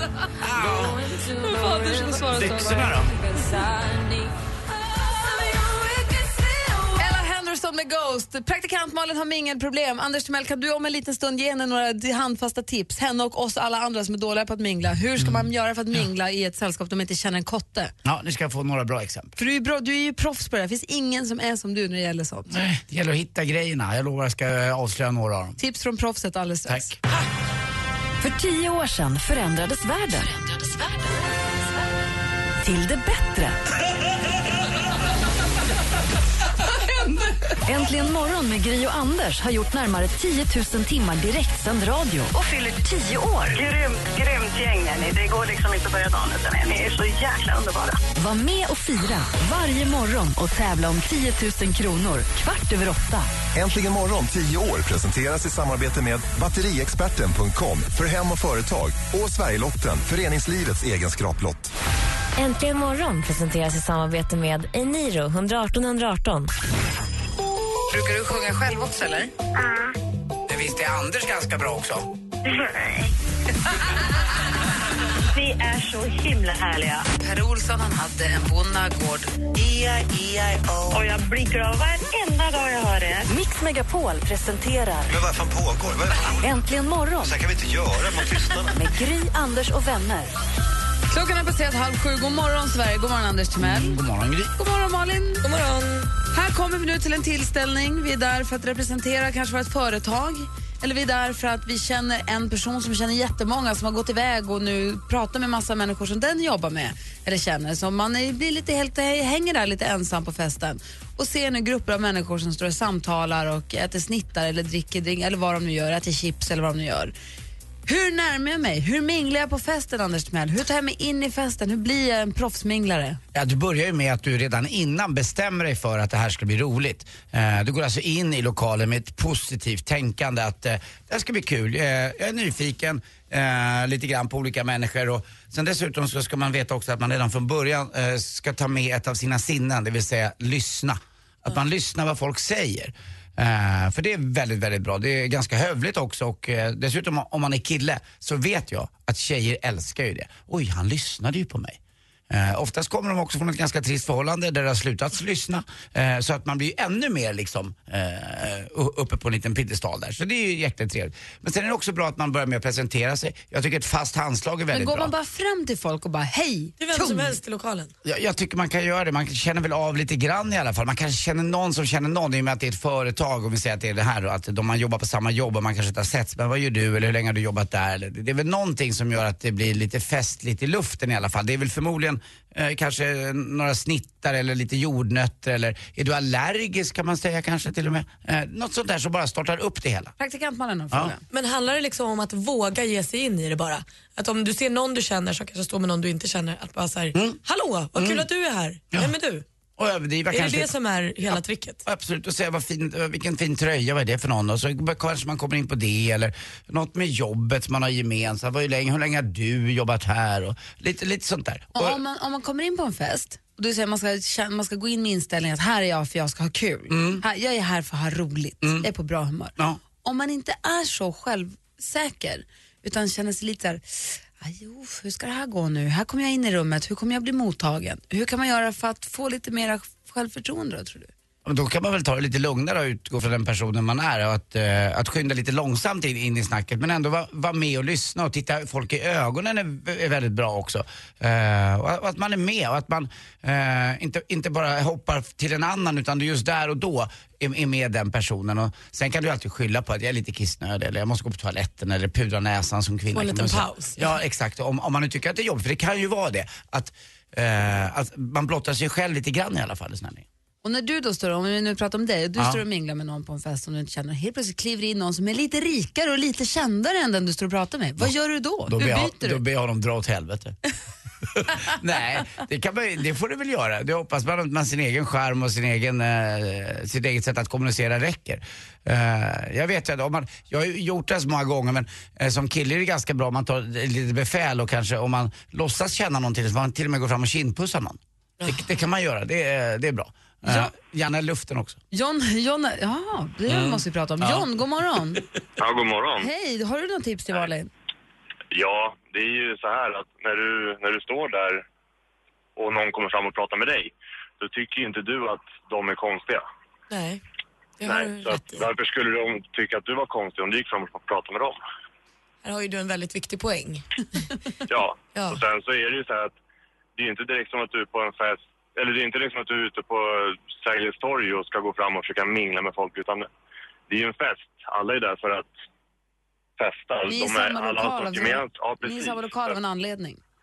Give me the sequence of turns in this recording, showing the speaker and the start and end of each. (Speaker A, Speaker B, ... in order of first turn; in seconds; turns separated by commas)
Speaker A: 0.4-1.0, Speaker B: 1.3-3.1, Speaker A: 2.3-3.1, Speaker B: 6.9-17.9, Speaker A: 15.2-15.4, Speaker A: 18.0-19.4, Speaker B: 19.4-22.6, Speaker A: 22.5-25.6, Speaker B: 25.6-26.9, Speaker A: 26.7-26.9, Speaker C: 28.2-30.3, Speaker C: 32.6-33.6, Speaker C: 37.6-43.6, Speaker D: 43.5-48.0, Speaker C: 48.1-53.3, Speaker E: 53.5-61.7, Speaker F: 62.4-66.5, Speaker B: 67.9-69.3, Speaker D: 69.5-69.9, Speaker A: 70.5-72.1, Speaker D: 72.4-73.1, Speaker D: 75.3-77.1, Speaker B: 77.1-80.7, Speaker D: 80.9-83.3, Speaker C: 83.3-85.1, Speaker G: 85.1-86.4, Speaker C: 86.4-87.3, Speaker G: 87.2-88.8, Speaker C: 88.7-90.3, Speaker B: 91.1-94.0, Speaker A: 93.6-94.5, Speaker B: 94.5-95.4, Speaker H: 95.4-96.1, Speaker B: 96.3-117.1, Speaker B: 117.8-123.2, Speaker A: 123.3-151.8, Speaker A: 152.3-165.1, Speaker B: 164.7-167.4, Speaker H: 166.8-167.9, Speaker A: 168.0-190.1, Speaker B: 190.2-191.2, Speaker H: 191.3-199.4, Speaker A: 197.9-198.3, Speaker A: 199.8-200.7, Speaker H: 200.3-201.8, Speaker A: 201.3-212.0, Speaker B: 211.7-231.1, Speaker A: 216.9-217.2, Speaker A: 218.6-218.9, Speaker A: 231.4-260.2, Speaker H: 253.1-254.1, Speaker B: 260.6-269.4, Speaker A: 262.4-262.6, Speaker A: 268.7-270.6, Speaker A: 271.2-291.8, Speaker B: 290.4-290.7, Speaker B: 291.9-295.2, Speaker A: 293.5-294.5, Speaker I: 295.6-296.3, Speaker B: 296.2-297.7, Speaker I: 298.5-301.6, Speaker I: 302.6-306.4, Speaker H: 306.9-307.2, Speaker H: 307.8-308.7, Speaker I: 307.8-311.6, Speaker H: 312.4-313.8, Speaker I: 314.7-316.3, Speaker H: 315.1-315.4, Speaker I: 317.0-323.3, Speaker I: 323.9-325.5, Speaker I: 326.6-329.5, Speaker B: 327.1-330.2